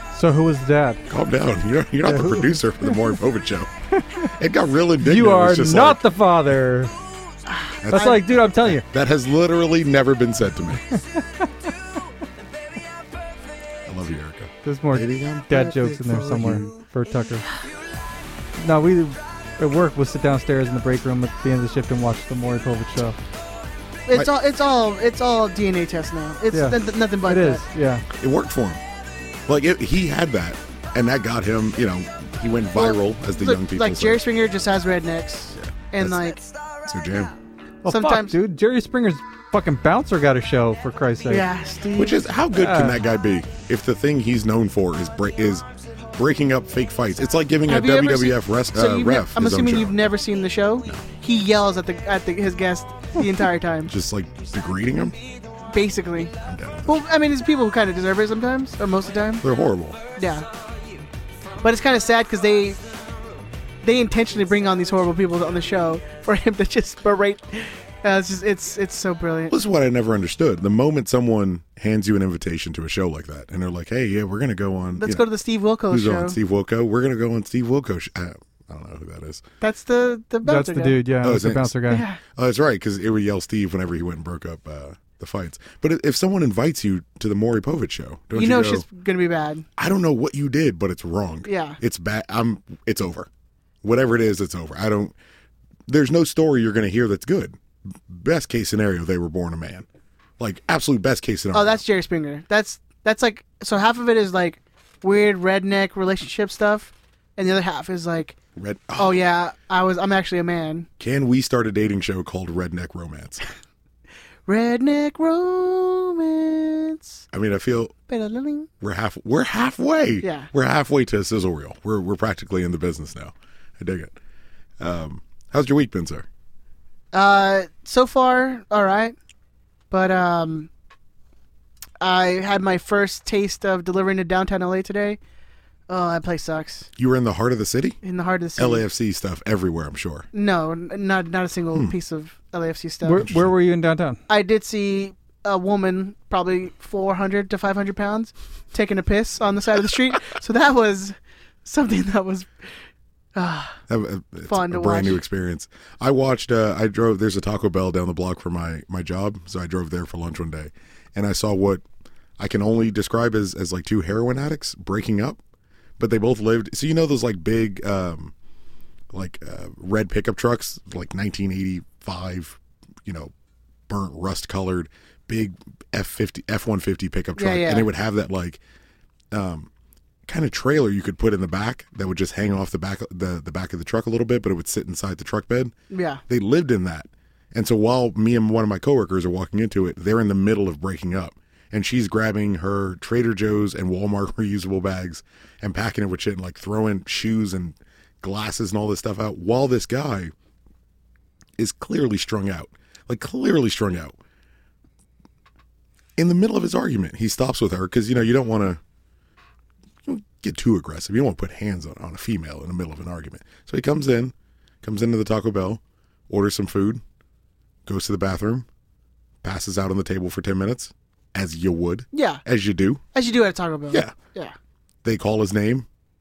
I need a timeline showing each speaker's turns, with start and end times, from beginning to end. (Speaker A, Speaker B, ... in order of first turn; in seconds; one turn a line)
Speaker A: 0.1-1.0
Speaker B: 1.1-3.7
Speaker A: 2.0-3.0
Speaker B: 4.3-6.0
Speaker A: 5.0-6.9
Speaker C: 7.5-8.3
Speaker B: 7.8-10.8
Speaker A: 7.9-8.8
Speaker B: 13.8-16.8
Speaker A: 14.6-17.4
Speaker A: 18.6-23.2
Speaker C: 24.1-27.6
Speaker A: 26.5-28.1
Speaker B: 28.1-28.8
Speaker B: 29.5-34.2
Speaker C: 32.8-36.4
Speaker B: 35.5-36.3
Speaker B: 36.8-37.3
Speaker A: 37.8-41.5
Speaker C: 37.9-38.4
Speaker C: 41.3-42.2
Speaker B: 42.0-50.0
Speaker A: 42.5-43.0
Speaker C: 47.6-53.9
Speaker B: 53.9-55.2
Speaker C: 55.7-56.3
Speaker B: 56.4-57.0
Speaker C: 56.9-59.5
Speaker B: 59.4-60.0
Speaker C: 60.1-60.5
Speaker C: 61.6-62.8
Speaker C: 63.8-69.6
Speaker B: 69.5-75.3
Speaker C: 75.0-76.4
Speaker B: 75.9-79.4
Speaker C: 79.6-81.0
Speaker A: 80.4-82.0
Speaker B: 81.2-88.8
Speaker C: 81.9-82.2
Speaker C: 88.3-89.7
Speaker B: 89.8-93.3
Speaker C: 91.4-91.8
Speaker B: 93.8-95.1
Speaker B: 95.9-99.8
Speaker B: 100.4-101.8
Speaker C: 101.5-108.3
Speaker B: 108.5-109.2
Speaker C: 109.0-110.9
Speaker B: 111.0-113.4
Speaker C: 114.5-117.2
Speaker B: 117.3-117.9
Speaker C: 118.1-118.7
Speaker B: 118.8-124.1
Speaker C: 120.2-120.5
Speaker B: 124.8-126.2
Speaker C: 127.1-129.2
Speaker C: 129.9-130.7
Speaker C: 132.0-135.2
Speaker C: 135.9-136.9
Speaker B: 137.0-138.0
Speaker C: 138.0-138.8
Speaker B: 138.6-140.3
Speaker C: 140.3-143.2
Speaker A: 143.0-144.2
Speaker B: 143.2-143.5
Speaker C: 144.3-152.5
Speaker C: 153.3-153.8
Speaker B: 153.9-161.8
Speaker C: 154.4-155.2
Speaker B: 162.4-165.4
Speaker B: 166.0-168.3
Speaker B: 169.1-173.3
Speaker B: 173.9-178.6
Speaker C: 177.3-177.9
Speaker B: 179.3-179.7
Speaker B: 180.3-185.7
Speaker C: 185.9-186.2
Speaker B: 186.3-200.3
Speaker B: 201.6-204.2
Speaker B: 206.2-208.8
Speaker B: 210.0-217.0
Speaker B: 217.8-218.7
Speaker B: 219.4-223.0
Speaker C: 222.1-222.4
Speaker C: 223.1-224.5
Speaker B: 225.0-225.9